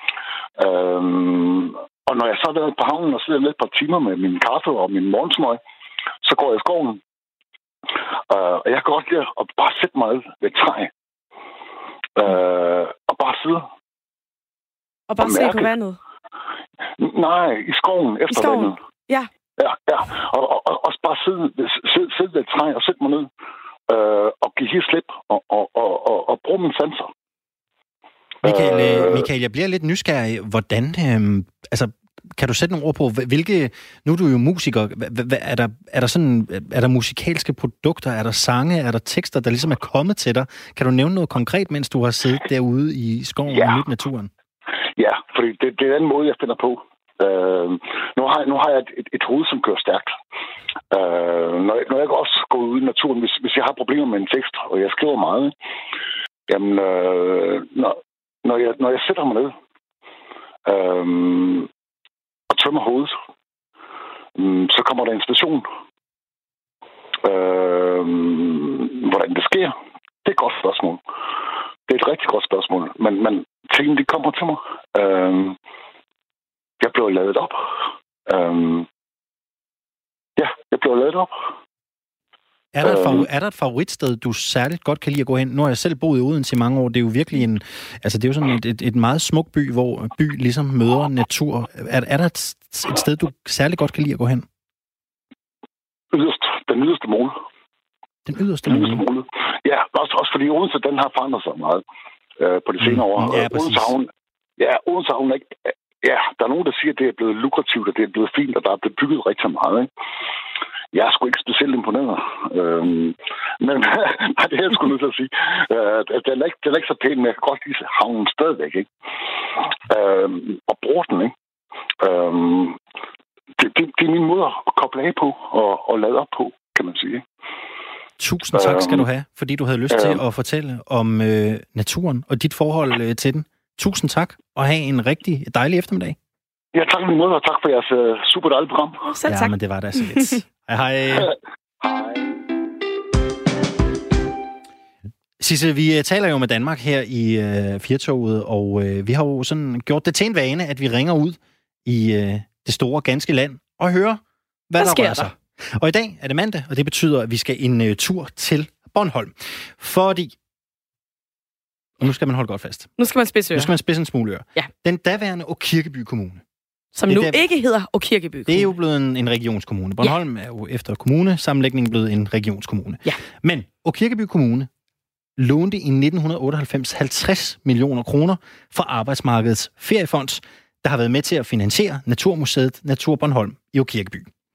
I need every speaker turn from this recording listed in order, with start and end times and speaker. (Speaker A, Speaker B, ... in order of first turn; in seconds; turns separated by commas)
Speaker A: 0.6-5.6, Speaker A: 6.2-7.0, Speaker A: 8.3-10.9, Speaker A: 12.2-13.7, Speaker B: 15.1-16.0, Speaker A: 15.2-15.7, Speaker A: 17.0-18.8, Speaker B: 18.3-19.3, Speaker A: 19.6-23.3, Speaker A: 23.9-27.1, Speaker A: 28.4-29.3, Speaker C: 28.4-44.3, Speaker A: 43.5-43.8, Speaker A: 45.0-50.1, Speaker A: 50.9-55.5, Speaker A: 56.5-59.5, Speaker A: 60.7-61.7, Speaker A: 62.5-63.1, Speaker A: 64.4-65.7, Speaker A: 67.2-69.7, Speaker A: 70.2-71.0, Speaker A: 71.9-75.6, Speaker A: 76.8-77.6, Speaker A: 78.3-78.9, Speaker A: 80.4-81.3, Speaker C: 82.8-94.5, Speaker A: 82.8-83.3, Speaker A: 96.1-97.3, Speaker C: 98.3-99.0, Speaker A: 98.7-101.8, Speaker A: 102.4-109.9, Speaker C: 102.8-103.9, Speaker A: 110.9-118.9, Speaker A: 119.9-121.3, Speaker A: 122.0-122.8, Speaker A: 123.6-127.2, Speaker C: 128.2-136.2, Speaker A: 128.6-129.1, Speaker A: 129.9-130.2, Speaker A: 136.7-139.1, Speaker B: 139.1-139.5, Speaker C: 139.3-141.3, Speaker A: 141.8-142.2, Speaker C: 145.4-160.3, Speaker B: 154.8-155.3, Speaker C: 162.0-162.9, Speaker B: 163.0-163.7, Speaker C: 163.6-166.4, Speaker B: 166.9-168.7, Speaker C: 167.1-167.4, Speaker C: 168.5-174.7, Speaker C: 175.4-184.3